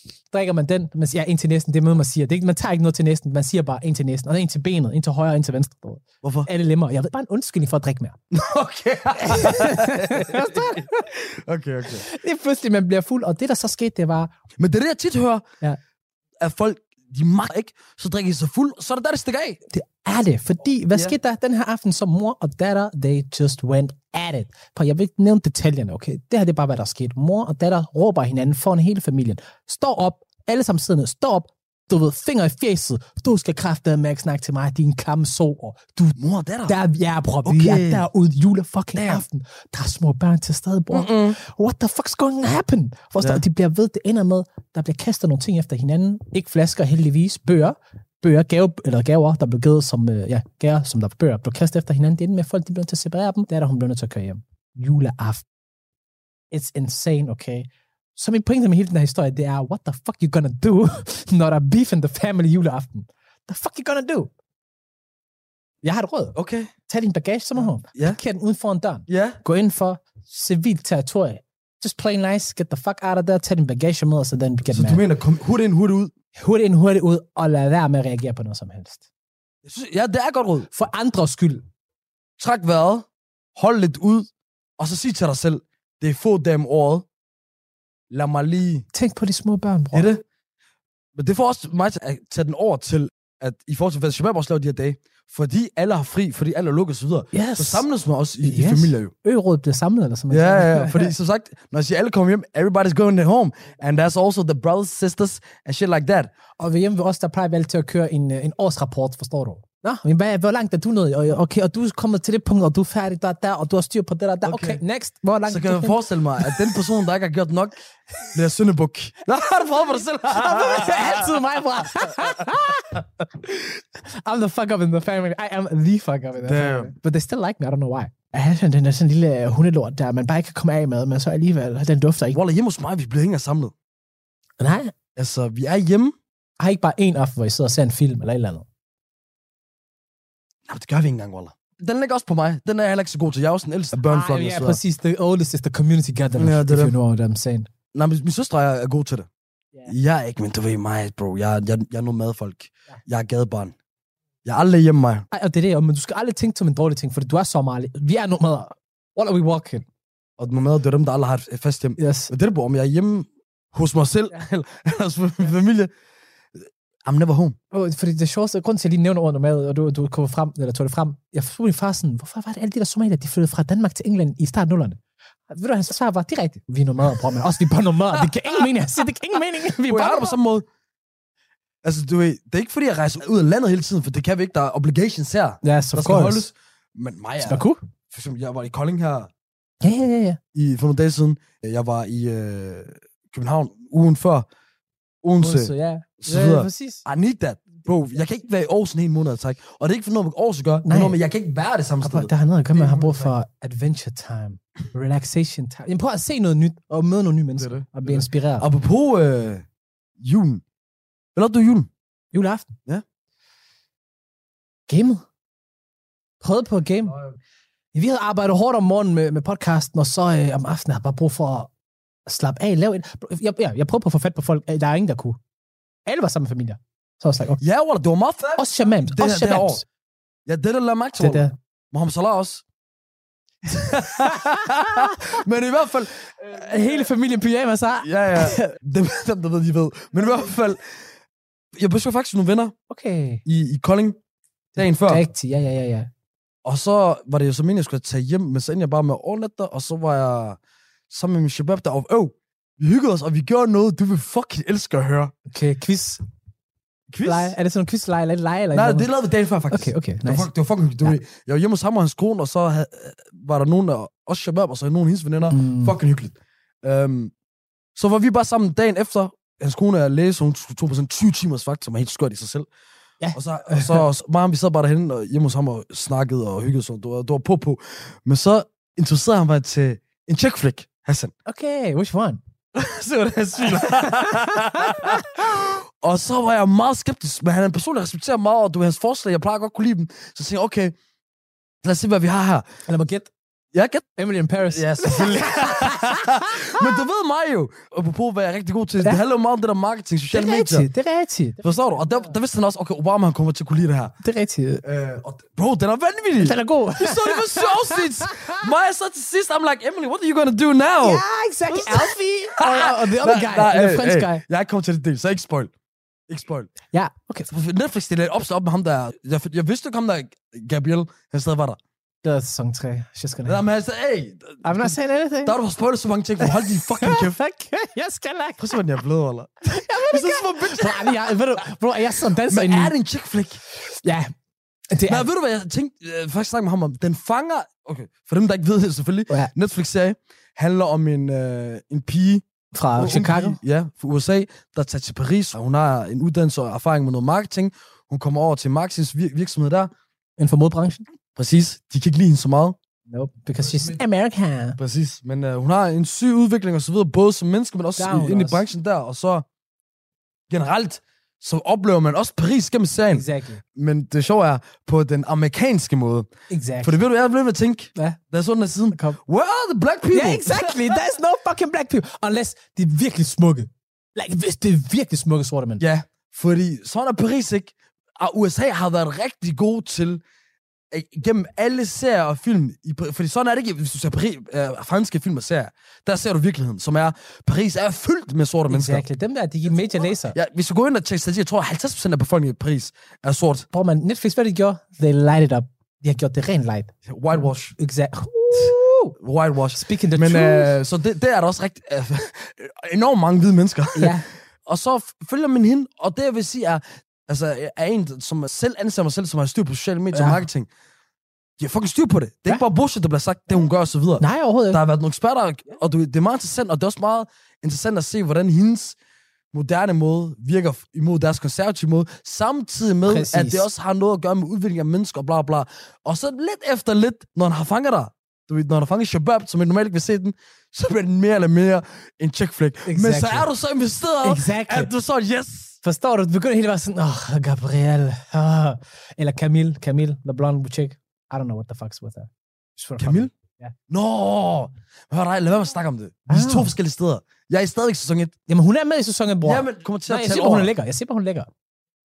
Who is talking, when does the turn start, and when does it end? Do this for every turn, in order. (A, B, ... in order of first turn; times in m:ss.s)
0:00.3-0:08.2 A
0:06.2-0:06.5 B
0:08.3-0:12.0 B
0:09.2-0:11.1 A
0:12.0-0:14.3 A
0:14.6-0:15.4 B
0:16.4-0:19.6 B
0:19.7-0:55.4 A
0:36.2-0:36.8 B
0:37.4-0:38.1 B
0:39.0-0:39.2 B
0:40.9-0:41.4 B
0:56.5-1:04.3 A
1:05.8-1:06.4 A
1:06.4-1:06.7 B
1:06.9-1:15.0 A
1:07.6-1:08.2 B
1:09.1-1:09.4 B
1:14.6-1:16.1 B
1:16.4-1:19.0 A
1:19.6-1:20.7 B
1:20.7-1:21.6 A
1:22.4-1:27.0 B
1:28.1-1:28.9 B
1:28.9-1:30.1 A
1:29.9-1:30.2 B
1:31.2-1:39.1 B
1:37.3-1:37.8 A
1:38.4-1:41.1 A
1:40.3-1:46.3 B
1:46.6-1:56.5 A
1:54.4-1:54.8 B
1:55.5-1:57.8 B
1:58.3-2:01.3 B
2:00.2-2:03.0 A
2:04.0-2:12.4 A
2:06.4-2:06.9 B
2:12.3-2:13.7 B
2:14.6-2:14.9 A
2:15.2-2:16.1 B
2:16.6-2:18.6 A
2:20.7-2:24.8 B
2:24.0-2:27.7 A
2:26.4-2:26.9 B
2:27.9-2:29.3 B
2:29.9-2:33.7 B
2:34.4-2:35.3 B
2:35.3-2:39.9 A
2:40.4-2:45.9 B
2:42.0-2:42.3 A
2:46.6-2:47.6 B
2:47.7-2:55.0 A
2:55.5-3:00.4 A
2:59.9-3:00.6 B
3:01.8-3:09.3 B
3:05.6-3:06.5 A
3:07.4-3:07.8 A
3:09.8-3:10.4 A
3:10.5-3:14.4 B
3:15.2-3:23.3 B
3:15.4-3:17.0 A
3:20.8-3:21.2 A
3:22.0-3:28.7 A
3:27.6-3:29.6 B
3:30.2-3:30.6 B
3:31.4-3:31.9 B
3:32.3-3:32.7 A
3:34.9-3:35.2 A
3:36.4-3:37.1 A
3:37.1-3:37.4 B
3:37.9-3:41.7 A
3:42.3-3:45.4 A
3:46.0-3:47.6 A
3:47.6-3:49.8 B
3:48.6-3:49.8 A
3:50.5-3:52.6 B
3:51.2-3:51.5 A
3:53.7-3:57.0 B
3:53.9-3:55.2 A
3:56.5-3:58.7 A
3:58.0-4:00.9 B
4:01.8-4:02.7 B
4:02.9-4:03.4 A
4:03.4-4:04.2 B
4:04.8-4:05.2 B
4:04.8-4:06.1 A
4:06.6-4:10.6 B
4:11.1-4:15.3 B
4:15.5-4:16.2 A
4:17.1-4:17.5 B
4:17.2-4:19.1 A
4:18.7-4:27.3 B
4:19.7-4:20.5 A
4:25.5-4:25.9 A
4:28.0-4:32.7 B
4:33.2-4:34.0 A
4:33.4-4:41.3 B
4:41.4-4:42.4 A
4:42.7-4:50.9 B
4:43.7-4:45.4 A
4:51.8-4:52.6 B
4:52.9-4:53.3 A
4:53.7-4:54.2 B
4:54.2-4:56.9 A
4:54.7-5:00.9 B
5:00.3-5:02.3 A
5:01.6-5:04.2 B
5:04.2-5:04.8 A
5:04.8-5:15.7 B
5:06.4-5:08.5 A
5:11.0-5:14.4 A
5:16.3-5:16.7 B
5:16.9-5:17.5 A
5:17.5-5:21.8 B
5:22.2-5:23.6 A
5:23.4-5:27.4 B
5:24.6-5:25.6 A
5:26.4-5:28.8 A
5:28.6-5:31.4 B
5:29.7-5:32.9 A
5:32.4-5:33.6 B
5:33.9-5:34.3 A
5:34.9-5:35.3 A
5:35.1-5:42.4 B
5:42.7-5:43.6 A
5:43.0-5:49.9 B
5:50.4-5:51.0 A
5:51.4-5:52.8 B
5:53.1-5:54.8 A
5:53.6-5:54.0 B
5:54.8-5:59.4 B
5:58.0-5:58.6 A
6:00.5-6:06.3 B
6:03.1-6:03.6 A
6:06.5-6:07.0 A
6:06.8-6:11.0 B
6:08.9-6:09.2 A
6:10.1-6:15.8 A
6:15.8-6:20.2 B
6:20.9-6:29.0 B
6:28.7-6:30.4 A
6:29.7-6:33.7 B
6:33.7-6:39.1 A
6:37.1-6:37.8 B
6:38.5-6:50.7 B
6:39.8-6:40.7 A
6:43.9-6:44.3 A
6:50.1-6:50.4 A
6:51.6-6:59.0 B
6:54.2-6:54.8 A
6:59.5-7:15.8 B
7:03.1-7:03.6 A
7:12.9-7:13.5 A
7:14.2-7:14.9 A
7:15.8-7:23.7 A
7:23.0-7:23.3 B
7:23.9-7:28.3 B
7:26.3-7:26.7 A
7:28.5-7:31.5 A
7:29.4-7:30.7 B